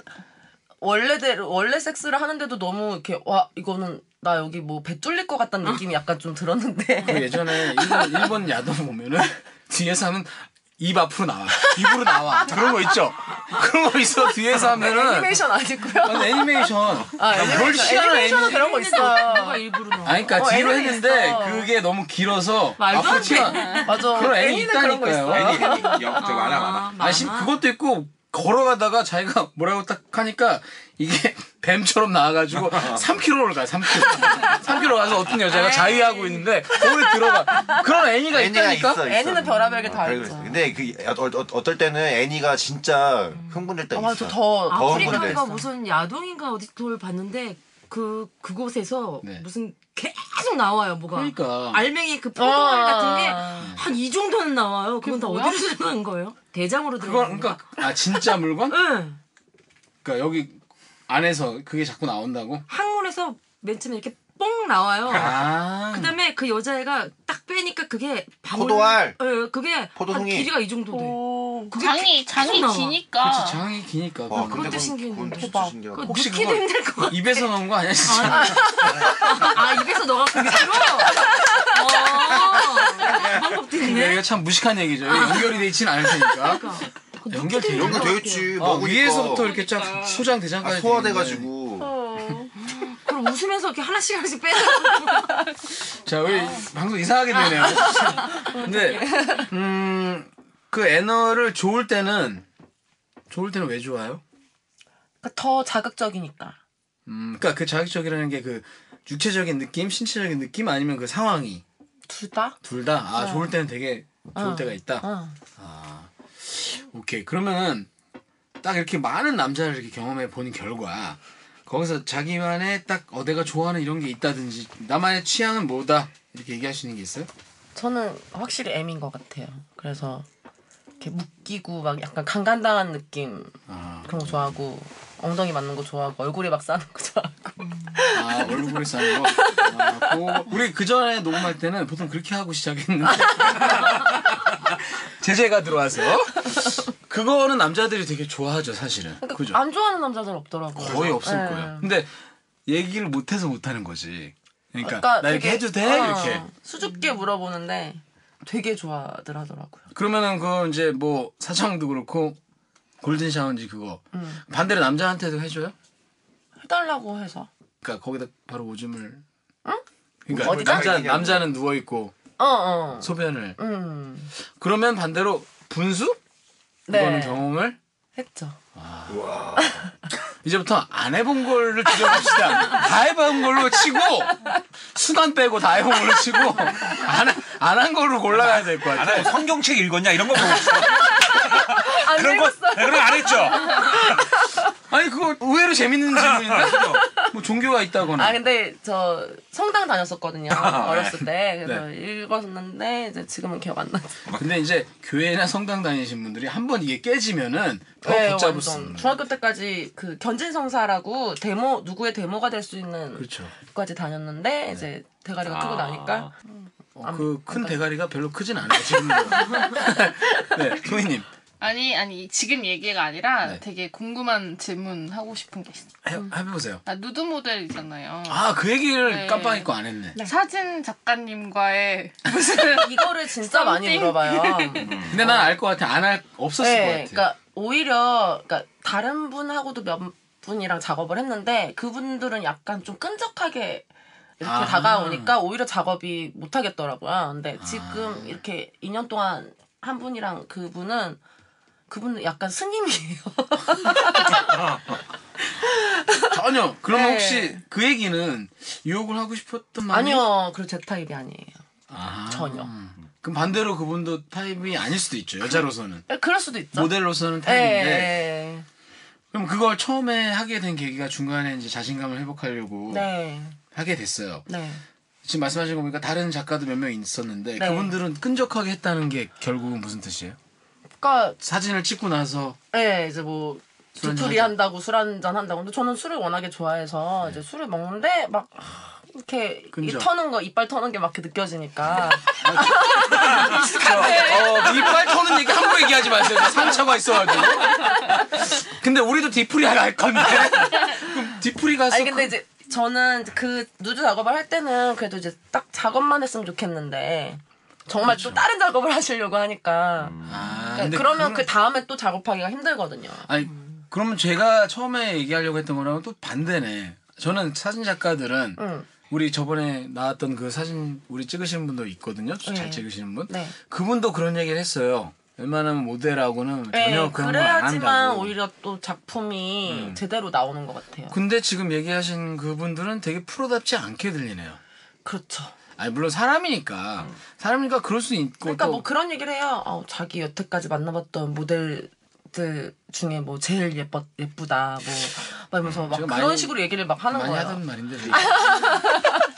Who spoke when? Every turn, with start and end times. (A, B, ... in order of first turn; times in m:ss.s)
0:00.8-0:08.1 A
0:07.0-0:15.4 B
0:11.6-0:12.8 A
0:14.5-0:19.6 A
0:16.0-0:18.8 B
0:17.2-0:17.7 C
0:17.8-0:20.6 D
0:20.0-0:26.0 B
0:20.3-0:21.7 A
0:22.8-0:24.6 D
0:23.6-0:23.9 E
0:23.8-0:26.2 A
0:25.3-0:27.0 C
0:25.7-0:27.6 D
0:27.0-0:39.0 B
0:32.6-0:33.0 C
0:35.5-0:37.8 A
0:38.3-0:45.4 F
0:39.0-0:40.6 A
0:43.4-0:43.7 D
0:43.9-0:45.6 A
0:44.7-0:59.2 D
0:51.1-0:51.8 B
0:52.4-0:53.7 A
0:55.0-0:55.6 A
0:57.0-0:58.8 B
1:00.0-1:02.6 B
1:02.7-1:13.0 D
1:05.1-1:06.1 B
1:08.5-1:09.2 F
1:09.9-1:10.5 F
1:10.9-1:11.7 A
1:11.7-1:13.6 E
1:13.2-1:14.7 B
1:14.3-1:16.1 F
1:14.3-1:17.5 D
1:16.0-1:18.6 B
1:18.0-1:24.2 D
1:23.8-1:26.7 B
1:25.1-1:28.6 D
1:27.3-1:31.5 B
1:27.7-1:29.5 F
1:29.3-1:30.2 E
1:30.6-1:31.9 F
1:31.8-1:32.5 A
1:32.6-1:35.4 D
1:36.0-1:42.4 B
1:38.5-1:39.5 A
1:43.3-1:44.2 B
1:45.2-1:46.6 A
1:47.1-1:51.6 B
1:52.1-1:52.6 A
1:52.6-1:55.0 B
1:53.2-1:53.5 A
1:54.4-1:55.4 A
1:55.6-1:57.9 B
1:58.6-2:07.3 B
2:07.7-2:10.2 A
2:11.0-2:20.4 A
2:13.7-2:14.1 B
2:18.1-2:29.6 B
2:29.2-2:31.9 A
2:30.7-2:32.1 B
2:32.6-2:36.5 B
2:34.8-2:39.8 A
2:39.9-2:42.4 B
2:43.0-2:45.7 B
2:44.1-2:44.4 A
2:46.6-2:47.5 A
2:47.8-2:49.2 B
2:50.2-2:52.1 B
2:50.3-2:51.5 F
2:50.3-2:51.1 A
2:52.4-2:54.3 A
2:53.0-2:53.6 B
2:54.5-2:56.2 B
2:56.9-2:57.4 A
2:56.9-2:57.8 B
2:58.2-2:58.6 A
2:58.8-2:59.2 B
2:59.1-2:59.8 F
3:00.4-3:09.3 B
3:08.3-3:14.2 C
3:10.6-3:14.6 A
3:14.9-3:18.4 B
3:16.1-3:17.0 C
3:18.2-3:24.2 A
3:20.5-3:21.2 C
3:24.4-3:29.1 B
3:28.0-3:36.3 A
3:33.2-3:33.5 B
3:35.4-3:36.3 C
3:37.0-3:41.3 B
3:37.0-3:37.8 A
3:38.8-3:39.8 A
3:41.6-3:45.9 E
3:46.0-3:46.8 B
3:46.8-3:54.8 E
3:48.3-3:50.2 B
3:52.7-3:55.5 A
3:54.8-3:55.2 C
3:54.9-3:57.3 B
3:56.6-4:03.8 A
4:04.4-4:11.2 A
4:04.4-4:05.4 B
4:07.6-4:08.4 B
4:11.9-4:14.6 A
4:14.4-4:14.8 C
4:15.6-4:16.4 A
4:16.3-4:20.2 B
4:16.9-4:17.6 A
4:19.9-4:21.6 A
4:21.9-4:26.1 B
4:22.3-4:22.7 A
4:26.1-4:28.6 A
4:26.7-4:28.2 B
4:29.3-4:33.1 B
4:32.9-4:33.6 A
4:33.7-4:34.5 B
4:34.5-4:34.8 A
4:35.2-4:40.4 B
4:37.6-4:37.9 A
4:41.0-4:41.4 A
4:41.4-4:42.6 B
4:42.7-4:54.4 A
4:44.0-4:44.6 B
4:49.7-4:50.1 B
4:52.2-5:02.3 B
4:53.1-4:53.7 C
4:54.1-4:54.6 E
5:01.9-5:13.3 A
5:08.0-5:08.4 B
5:10.0-5:10.5 C
5:10.3-5:11.5 B
5:13.3-5:28.3 B
5:18.6-5:18.9 A
5:22.4-5:23.5 A
5:26.7-5:31.2 A
5:29.6-5:30.0 B
5:31.1-5:34.6 B
5:35.0-5:35.5 A
5:35.8-5:38.8 B
5:38.4-5:49.2 A
5:45.9-5:49.0 B